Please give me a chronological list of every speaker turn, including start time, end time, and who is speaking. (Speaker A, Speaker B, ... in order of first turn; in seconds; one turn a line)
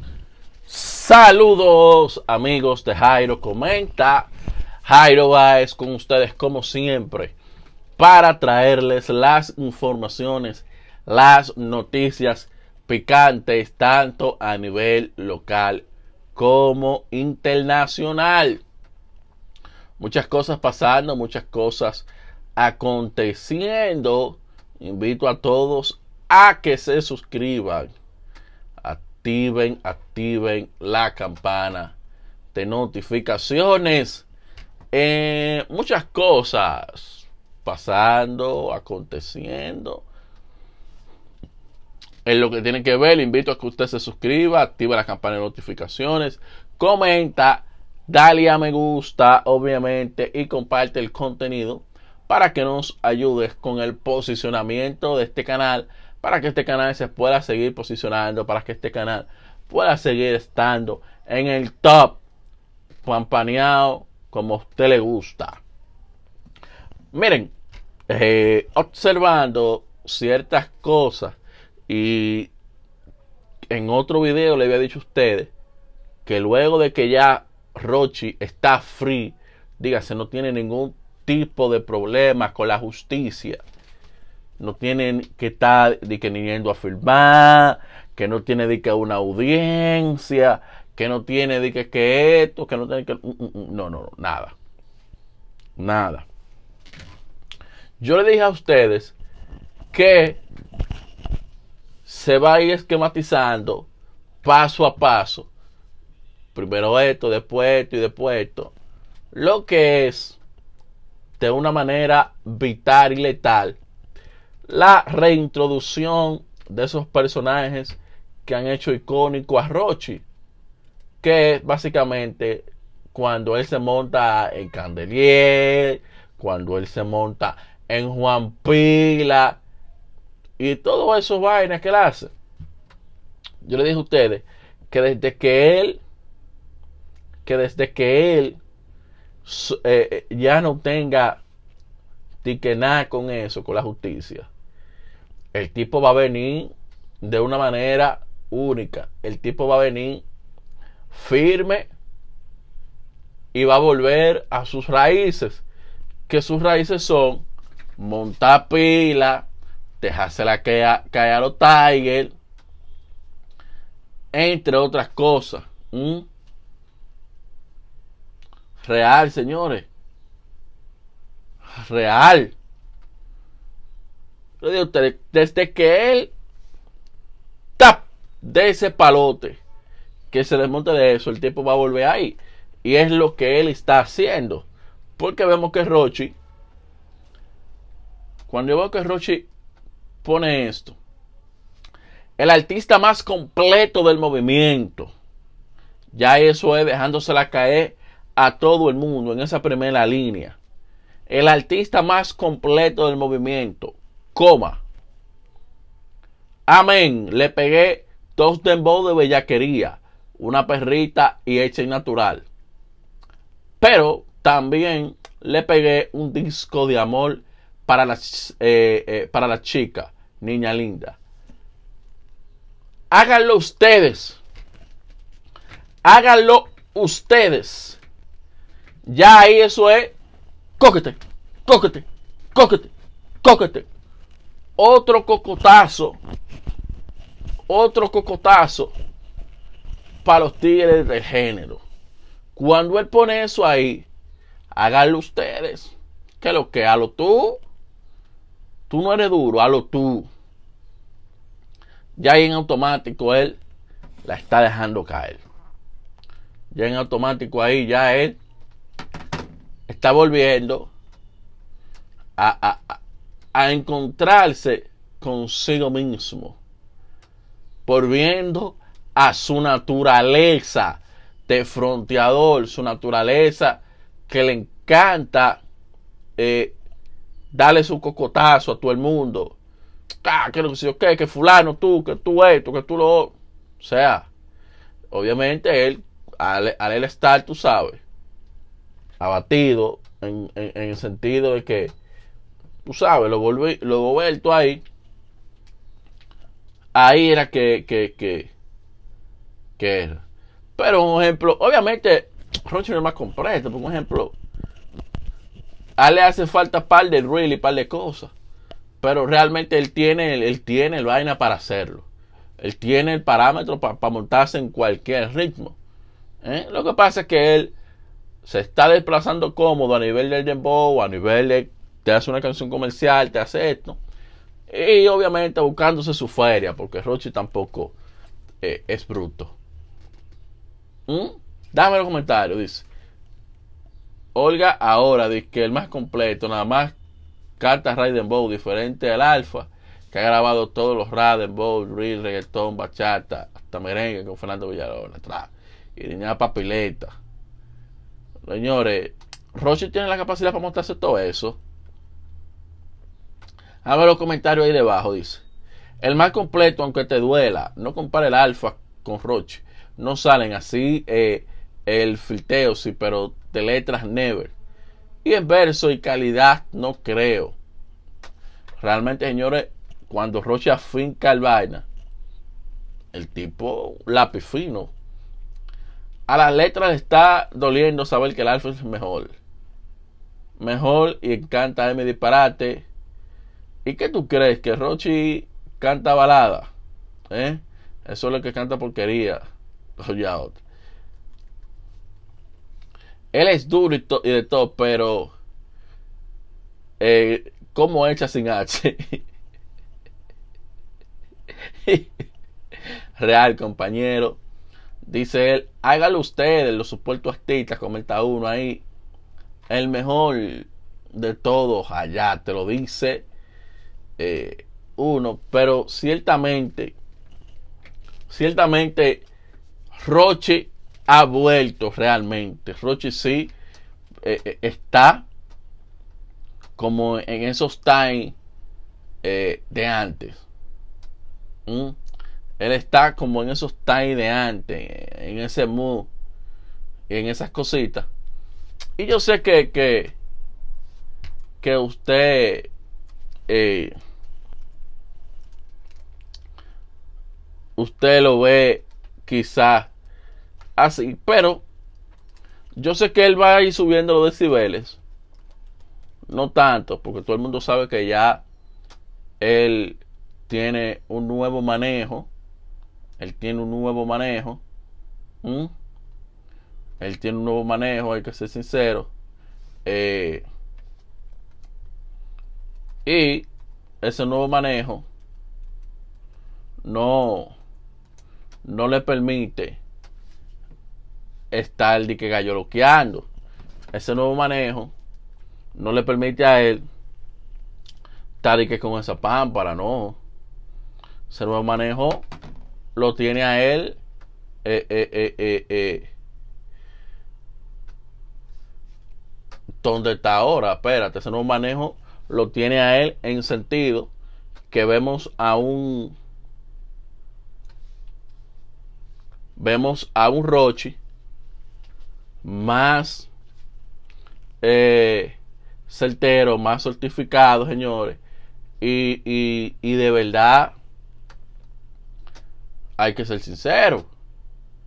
Speaker A: 0.7-4.3
Speaker A: 4.8-7.3
Speaker A: 8.0-18.6
Speaker A: 20.0-27.9
Speaker A: 28.8-31.9
Speaker A: 32.5-34.3
Speaker A: 34.9-40.0
Speaker A: 42.2-62.2
Speaker A: 63.0-65.6
Speaker A: 67.1-67.5
Speaker A: 68.1-71.4
Speaker A: 71.9-72.5
Speaker A: 73.7-75.5
Speaker A: 76.2-83.6
Speaker A: 84.6-94.6
Speaker A: 95.8-96.3
Speaker A: 98.0-99.1
Speaker A: 99.9-100.4
Speaker A: 102.0-103.9
Speaker A: 104.4-105.5
Speaker A: 106.5-108.8
Speaker A: 109.3-110.4
Speaker A: 111.4-113.8
Speaker A: 114.7-120.2
Speaker A: 121.2-129.6
Speaker A: 130.6-132.3
Speaker A: 133.6-136.0
Speaker A: 137.4-138.6
Speaker A: 139.4-141.4
Speaker A: 142.4-144.5
Speaker A: 145.5-150.2
Speaker A: 151.1-151.9
Speaker A: 153.5-155.6
Speaker A: 156.3-157.4
Speaker A: 158.0-159.5
Speaker A: 160.0-162.3
Speaker A: 164.3-166.2
Speaker A: 168.8-169.9
Speaker A: 171.8-172.5
Speaker A: 174.6-176.3
Speaker A: 177.8-179.6
Speaker A: 180.3-186.4
Speaker A: 188.5-189.5
Speaker A: 190.2-191.0
Speaker A: 192.4-195.1
Speaker A: 196.1-200.6
Speaker A: 201.3-204.8
Speaker A: 206.7-212.4
Speaker A: 213.8-221.2
Speaker A: 223.1-224.4
Speaker A: 226.0-228.0
Speaker A: 229.1-230.2
Speaker A: 230.8-233.9
Speaker A: 234.8-236.2
Speaker A: 237.7-238.9
Speaker A: 240.2-241.8
Speaker A: 242.5-244.1
Speaker A: 244.7-247.6
Speaker A: 248.9-250.3
Speaker A: 252.2-253.6
Speaker A: 254.2-255.4
Speaker A: 256.7-258.4
Speaker A: 259.9-260.9
Speaker A: 262.4-263.0
Speaker A: 263.5-266.6
Speaker A: 267.9-275.6
Speaker A: 276.4-276.8
Speaker A: 277.5-279.6
Speaker A: 280.2-284.3
Speaker A: 285.1-288.0
Speaker A: 289.2-292.0
Speaker A: 292.9-294.8
Speaker A: 296.9-298.5
Speaker A: 299.8-300.2
Speaker A: 300.8-304.4
Speaker A: 306.0-308.3
Speaker A: 309.0-312.1
Speaker A: 312.6-315.8
Speaker A: 316.4-317.7
Speaker A: 318.4-324.0
Speaker A: 324.7-327.9
Speaker A: 328.6-329.6
Speaker A: 331.1-332.9
Speaker A: 334.4-337.0
Speaker A: 337.6-347.2
Speaker A: 348.5-351.6
Speaker A: 353.8-355.4
Speaker A: 356.0-364.5
Speaker A: 365.2-367.6
Speaker A: 368.8-371.9
Speaker A: 373.1-374.9
Speaker A: 376.3-379.4
Speaker A: 380.6-382.9
Speaker A: 383.9-386.7
Speaker A: 387.3-389.4
Speaker A: 390.0-390.6
Speaker A: 393.3-395.3
Speaker A: 397.0-399.2
Speaker A: 401.9-402.2
Speaker A: 403.2-404.4
Speaker A: 405.1-408.8
Speaker A: 409.7-413.2
Speaker A: 414.2-416.9
Speaker A: 418.3-419.2
Speaker A: 419.9-423.5
Speaker A: 424.2-425.2
Speaker A: 426.8-428.4
Speaker A: 429.2-430.4
Speaker A: 431.7-432.0
Speaker A: 432.6-436.1
Speaker A: 437.1-438.1
Speaker A: 439.0-440.1
Speaker A: 441.6-442.7
Speaker A: 443.5-443.9
Speaker A: 447.8-449.9
Speaker A: 450.8-451.6
Speaker A: 452.8-455.0
Speaker A: 456.3-458.4
Speaker A: 459.4-462.3
Speaker A: 463.2-464.6
Speaker A: 465.4-465.7
Speaker A: 467.0-469.1
Speaker A: 469.9-470.4
Speaker A: 473.1-473.5
Speaker A: 474.0-475.1
Speaker A: 476.9-477.6
Speaker A: 478.6-479.8
Speaker A: 481.5-483.3
Speaker A: 483.9-484.9
Speaker A: 485.7-486.8
Speaker A: 488.4-490.2
Speaker A: 491.3-492.2
Speaker A: 493.0-494.0
Speaker A: 494.6-496.1
Speaker A: 499.8-504.1
Speaker A: 504.7-506.1
Speaker A: 509.6-511.0
Speaker A: 512.4-513.3
Speaker A: 514.6-518.2
Speaker A: 518.8-520.8
Speaker A: 523.0-524.1